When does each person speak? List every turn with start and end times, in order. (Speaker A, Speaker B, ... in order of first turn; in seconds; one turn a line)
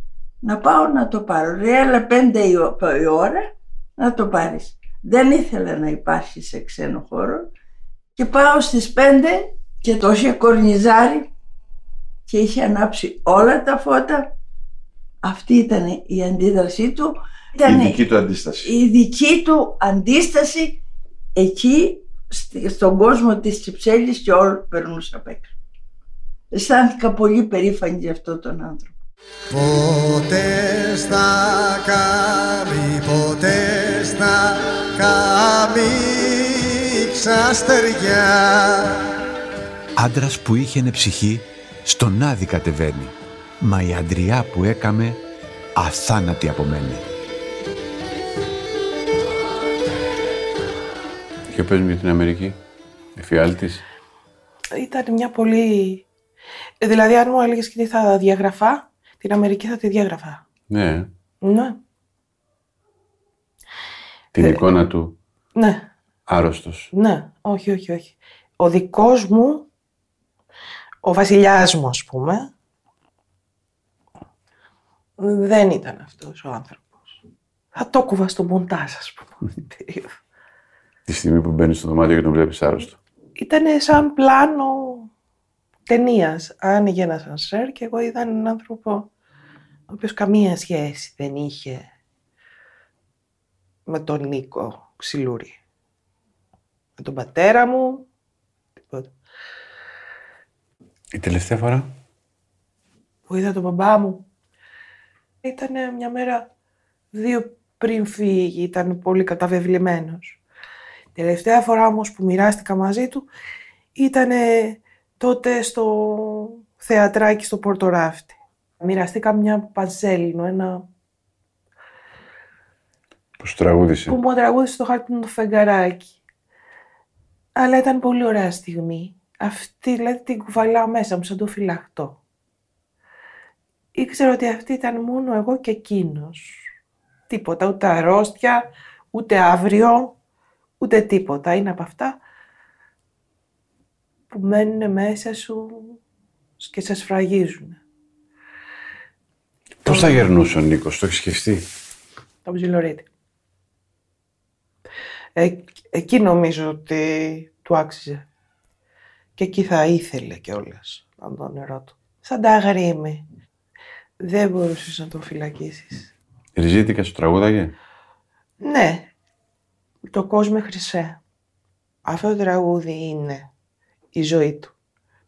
Speaker A: 0.4-7.5
Speaker A: 8.2-11.3
Speaker A: 12.3-14.3
Speaker A: 15.2-18.1
Speaker B: 17.6-18.7
Speaker A: 18.6-20.8
Speaker A: 21.4-25.5
Speaker A: 26.5-29.0
Speaker C: 29.5-39.1
Speaker B: 40.0-45.2
Speaker B: 45.8-47.1
Speaker D: 51.5-52.6
Speaker D: 53.1-53.9
Speaker E: 54.7-56.1
Speaker E: 56.8-60.4
Speaker D: 60.7-61.1
Speaker E: 61.4-61.8
Speaker D: 64.3-65.2
Speaker E: 64.4-64.7
Speaker E: 65.5-65.9
Speaker D: 66.3-66.9
Speaker E: 66.9-69.7
Speaker E: 71.0-72.5
Speaker E: 75.2-77.2
Speaker E: 77.7-80.1
Speaker D: 81.1-83.0
Speaker E: 83.4-85.1
Speaker E: 85.9-89.1
Speaker E: 89.9-91.9
Speaker E: 93.9-95.6
Speaker E: 97.0-98.1
Speaker D: 101.1-101.9
Speaker E: 103.3-104.2
Speaker E: 105.4-106.5
Speaker E: 107.1-110.4
Speaker E: 111.2-113.3
Speaker E: 113.9-120.9
Speaker D: 123.4-124.2
Speaker E: 124.1-126.1
Speaker E: 127.6-132.2
Speaker E: 133.9-136.6
Speaker E: 137.3-140.1
Speaker E: 140.8-142.2
Speaker E: 144.3-146.0
Speaker E: 146.6-147.8
Speaker D: 149.8-151.7
Speaker E: 149.9-150.3
Speaker E: 152.4-153.1
Speaker E: 155.4-158.2
Speaker E: 159.4-163.2
Speaker E: 164.2-166.1
Speaker D: 166.6-167.7
Speaker E: 168.6-169.1
Speaker E: 170.1-171.2
Speaker E: 172.1-173.5
Speaker E: 174.1-174.7